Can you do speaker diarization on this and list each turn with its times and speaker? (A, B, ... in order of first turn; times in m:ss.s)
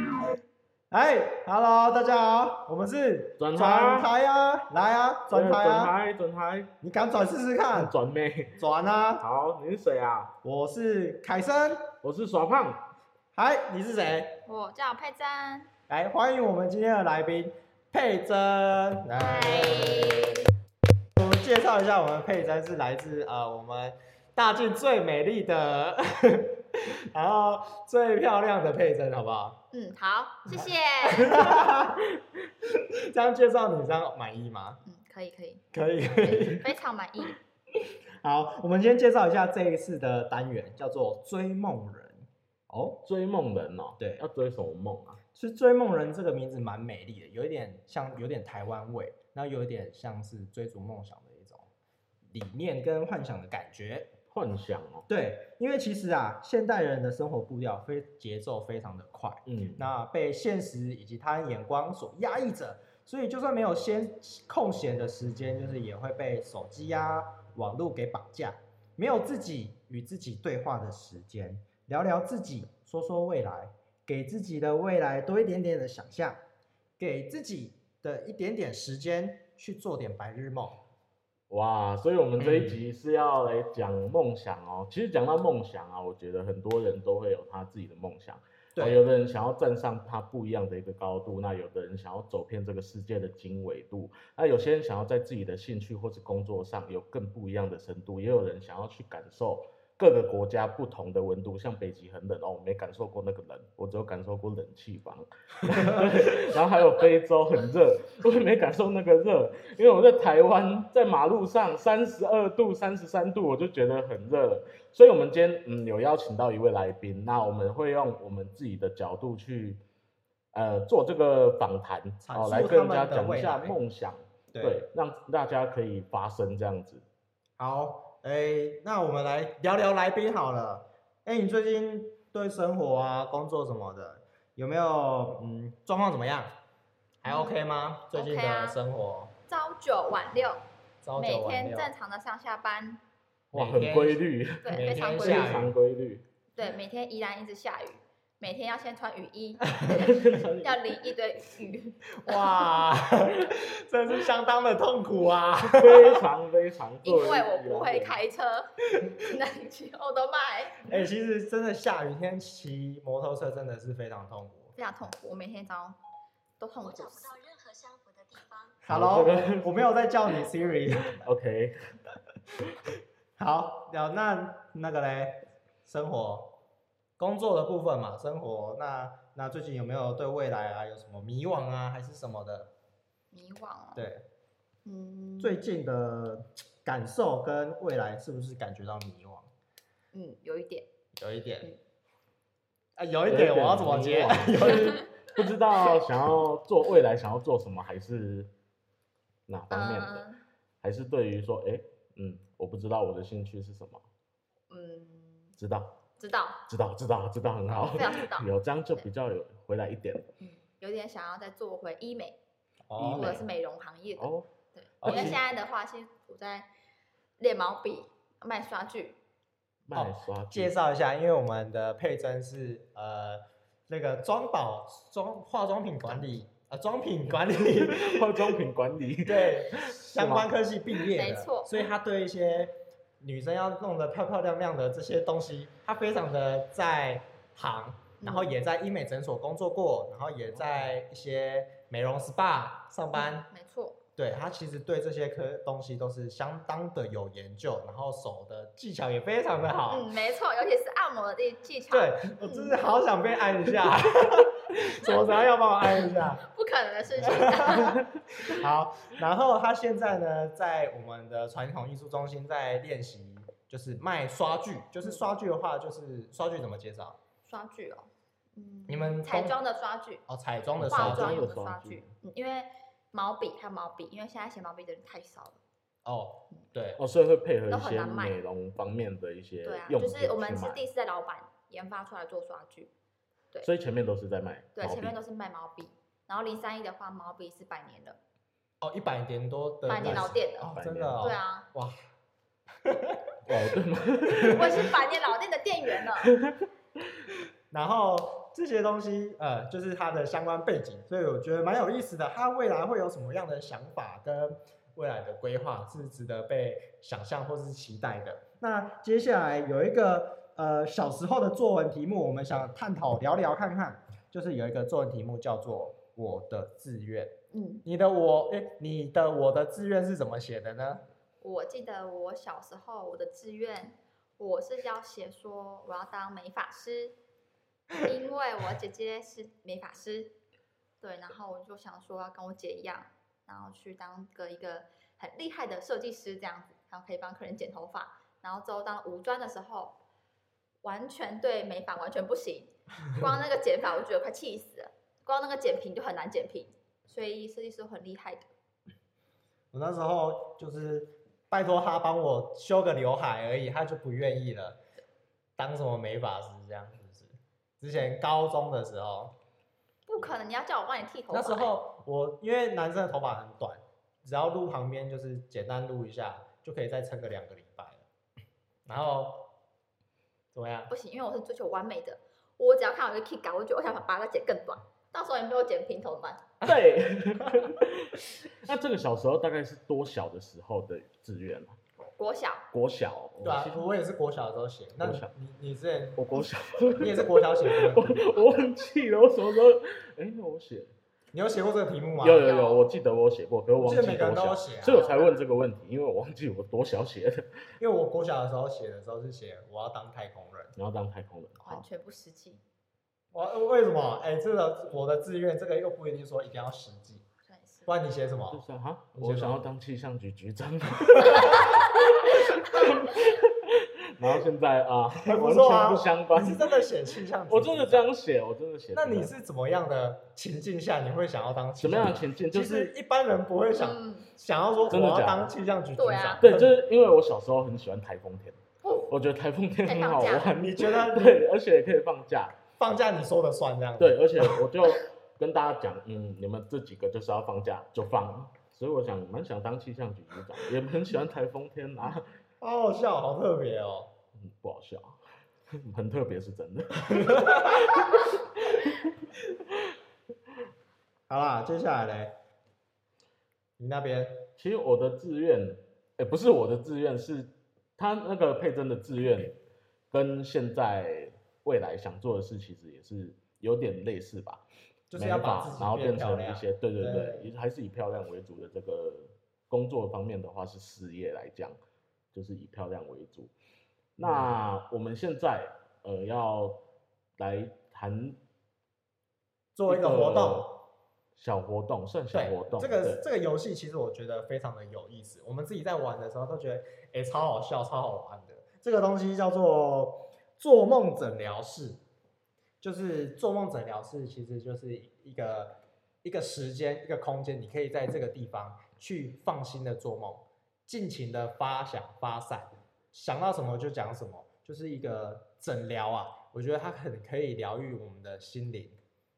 0:00.9-0:05.9 A
0:03.4-0:04.1 B
0:05.3-0:06.7 B
0:06.8-0:07.9 A
0:07.7-0:08.6 B
0:08.6-0:09.2 A
0:09.2-0:10.3 B
0:10.4-0:11.9 A
0:12.0-0:12.8 B
0:13.3-0:14.4 A
0:14.4-0:15.7 C
0:15.9-0:20.4 A
0:19.2-0:20.4 C
0:21.2-0:29.6 A
0:29.7-0:31.4 C
0:30.5-0:34.8 A
0:34.8-0:37.4 C
0:35.7-0:36.7 A
0:38.2-0:43.0 A
0:43.0-0:45.2 B
0:44.0-0:44.2 A
0:45.3-0:51.7 A
0:52.3-0:54.1 A
0:54.3-0:55.1 B
0:55.1-1:16.4 A
0:59.5-0:59.9 B
1:17.0-1:20.8 A
1:21.5-1:59.8 B
1:22.4-1:22.8 A
1:28.8-1:29.0 A
2:00.5-2:07.0 B
2:02.2-2:03.8 A
2:04.5-2:04.8 A
2:07.6-2:16.5 A
2:17.2-2:19.3 A
2:17.2-2:17.6 C
2:18.1-2:18.8 C
2:19.5-2:20.6 C
2:21.0-2:21.9 A
2:21.2-2:23.0 C
2:23.5-2:25.7 A
2:23.5-2:26.2 B
2:24.6-2:25.6 C
2:26.5-2:32.7 C
2:29.8-2:30.8 B
2:32.2-2:36.2 A
2:35.7-2:38.2 B
2:37.0-2:40.8 C
2:40.8-2:44.7 A
2:44.8-2:46.0 C
2:46.6-2:47.3 C
2:46.8-2:48.8 D
2:48.8-2:51.3 A
2:48.9-2:49.8 B
2:50.9-2:52.0 B
2:53.4-2:56.5 A
2:57.2-3:02.7 A
3:03.3-3:04.1 C
3:03.9-3:04.2 A
3:04.8-3:05.6 C
3:05.4-3:09.5 A
3:10.1-3:10.8 C
3:11.2-3:11.7 A
3:13.0-3:15.0 A
3:13.3-3:18.5 B
3:19.5-3:20.2 B
3:19.7-3:20.4 C
3:20.8-3:24.0 B
3:24.7-3:25.6 C
3:25.6-3:25.9 B
3:26.2-3:26.6 C
3:26.7-3:30.3 B
3:27.8-3:29.0 C
3:30.4-3:32.4 C
3:32.9-3:33.4 A
3:33.0-3:33.4 B
3:33.0-3:36.7 C
3:34.2-3:34.5 B
3:35.0-3:35.4 A
3:35.0-3:35.4 B
3:37.4-3:39.2 C
3:39.8-3:40.7 B
3:39.9-3:48.6 A
3:47.6-3:50.5 B
3:49.2-4:03.5 A
3:51.1-3:51.8 C
3:58.2-3:58.5 C
4:03.1-4:04.0 C
4:04.2-4:10.1 A
4:09.9-4:12.7 C
4:11.9-4:16.4 A
4:16.4-4:18.0 C
4:17.2-4:27.2 A
4:27.4-4:30.2 C
4:28.9-4:29.6 A
4:30.3-4:31.4 A
4:30.8-4:32.1 B
4:30.8-4:35.6 C
4:36.0-4:37.0 A
4:37.0-4:40.8 B
4:37.7-4:38.4 C
4:39.6-4:42.9 C
4:43.6-4:45.2 B
4:44.8-4:48.2 C
4:48.8-4:52.0 A
4:49.8-4:51.7 C
4:50.0-4:51.3 B
4:52.8-4:53.4 A
4:53.4-4:54.9 B
4:54.3-4:54.9 A
4:54.5-4:56.3 C
4:56.2-4:56.6 B
4:57.7-5:17.3 A
5:17.5-5:17.8 C
5:17.8-5:21.0 A
5:21.4-5:27.1 C
5:28.0-5:30.3 C
5:31.0-5:40.0 C
5:40.8-5:48.5 C
5:49.7-5:54.8 A
5:55.6-5:59.3 A
6:00.1-6:01.8 C
6:01.3-6:08.0 A
6:08.8-6:09.5 A
6:10.5-6:10.9 A
6:10.9-6:16.4 C
6:16.6-6:21.8 B
6:22.0-6:22.7 C
6:22.7-6:23.8 B
6:23.4-6:26.2 A
6:25.0-6:25.3 B
6:26.2-6:30.9 B
6:27.0-6:28.4 A
6:31.3-6:32.4 A
6:32.2-6:37.5 B
6:32.4-6:32.9 C
6:33.8-6:35.1 A
6:34.9-6:35.3 C
6:37.8-6:40.7 A
6:40.8-6:41.8 B
6:41.6-6:42.6 C
6:43.3-6:47.2 A
6:47.4-6:47.9 C
6:47.9-6:48.6 A
6:48.5-6:56.9 B
6:49.2-6:49.7 A
6:51.2-6:51.7 A
6:55.2-6:58.1 A
6:57.5-6:59.3 B
6:58.9-7:06.8 A
7:01.8-7:02.9 B
7:03.8-7:04.3 C
7:04.9-7:05.5 B
7:06.0-7:06.4 C
7:06.4-7:12.6 B
7:08.8-7:09.1 C
7:09.8-7:10.5 C
7:10.5-7:11.4 A
7:12.8-7:14.5 A
7:14.0-7:22.3 B
7:22.6-7:24.1 A
7:24.4-7:25.2 B
7:25.7-7:29.1 B
7:27.0-7:28.0 A
7:31.3-7:32.4 A
7:33.8-7:34.5 A
7:34.6-7:39.6 B
7:40.1-7:51.8 B
7:45.1-7:47.5 A
7:52.3-7:53.5 B
7:54.2-7:56.8 B
7:54.2-7:54.6 A
7:57.4-7:58.4 B
7:59.7-8:00.8 A
7:59.9-8:00.8 B
8:01.4-8:03.2 B
8:02.3-8:12.0 A
8:12.8-8:29.0 A